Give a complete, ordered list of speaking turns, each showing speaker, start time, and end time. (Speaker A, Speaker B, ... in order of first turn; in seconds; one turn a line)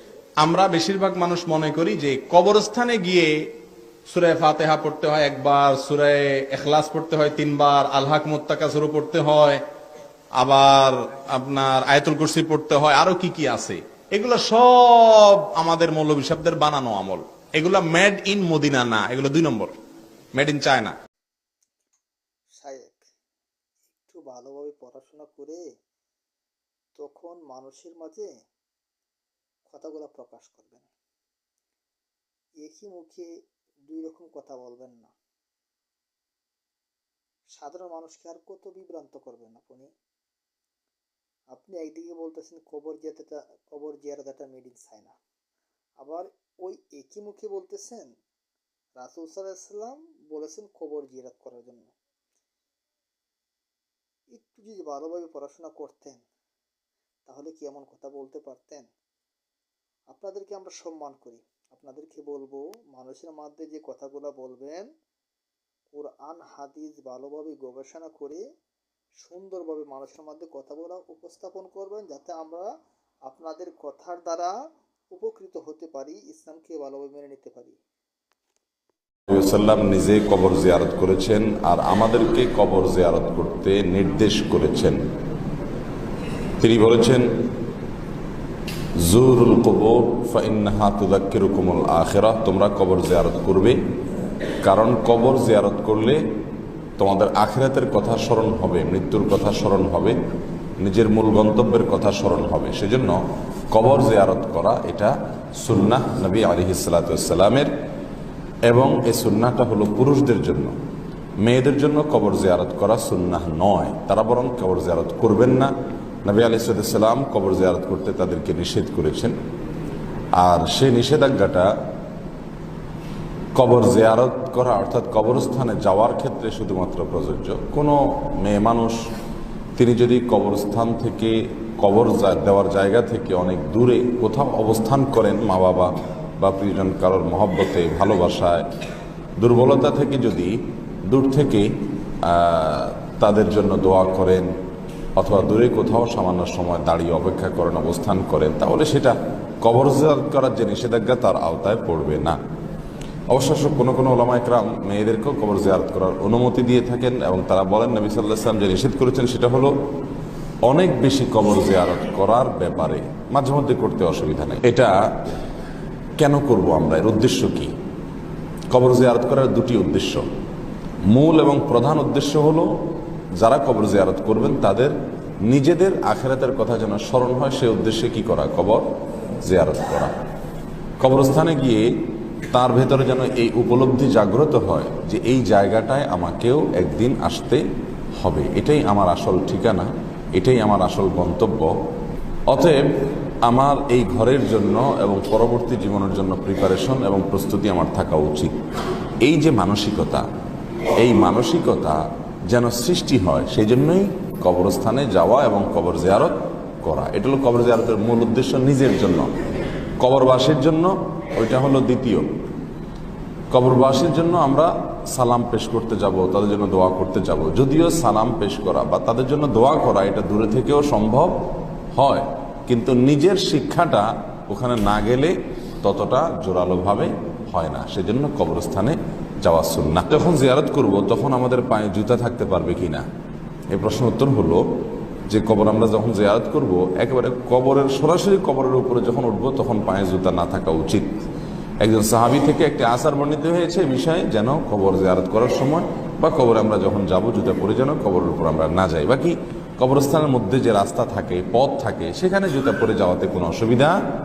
Speaker A: 0.4-3.3
Speaker B: 0.7-0.9
Speaker B: 1.5-1.8
Speaker A: 4.1-9.6
Speaker B: 6.8-7.0
Speaker B: 8.0-9.3
Speaker A: 10.4-13.4
Speaker B: 10.5-10.9
Speaker B: 12.0-13.8
Speaker A: 14.2-16.1
Speaker B: 15.6-18.9
Speaker A: 17.4-19.7
Speaker B: 20.5-20.9
Speaker C: 22.6-23.0
Speaker C: 23.9-25.6
Speaker C: 26.9-28.3
Speaker C: 29.7-30.9
Speaker C: 32.6-33.3
Speaker C: 33.9-35.1
Speaker C: 37.5-39.9
Speaker C: 41.5-45.2
Speaker C: 46.0-48.1
Speaker C: 49.0-51.9
Speaker C: 54.3-56.2
Speaker C: 57.3-58.9
Speaker C: 60.1-64.8
Speaker C: 65.9-68.4
Speaker C: 69.2-72.7
Speaker C: 73.3-74.5
Speaker C: 75.1-77.8
Speaker B: 79.3-85.0
Speaker B: 86.6-87.2
Speaker B: 89.0-93.8
Speaker B: 94.6-96.2
Speaker B: 97.0-100.2
Speaker B: 100.8-107.7
Speaker B: 108.6-110.7
Speaker B: 111.4-115.7
Speaker B: 116.2-119.3
Speaker B: 120.3-121.7
Speaker B: 123.5-129.0
Speaker B: 129.8-138.6
Speaker B: 139.4-141.7
Speaker B: 142.2-144.5
Speaker B: 145.2-152.4
Speaker B: 153.3-159.7
Speaker B: 160.6-165.2
Speaker B: 166.2-167.7
Speaker B: 168.7-170.2
Speaker B: 171.1-172.7
Speaker B: 173.4-178.8
Speaker B: 179.4-180.1
Speaker B: 181.0-181.8
Speaker B: 182.5-187.6
Speaker B: 188.2-191.7
Speaker B: 192.5-192.8
Speaker B: 193.4-198.5
Speaker B: 199.2-200.2
Speaker B: 201.0-209.3
Speaker B: 210.0-212.3
Speaker B: 213.5-221.4
Speaker B: 221.9-233.1
Speaker B: 233.7-234.6
Speaker B: 235.3-241.2
Speaker B: 241.8-254.0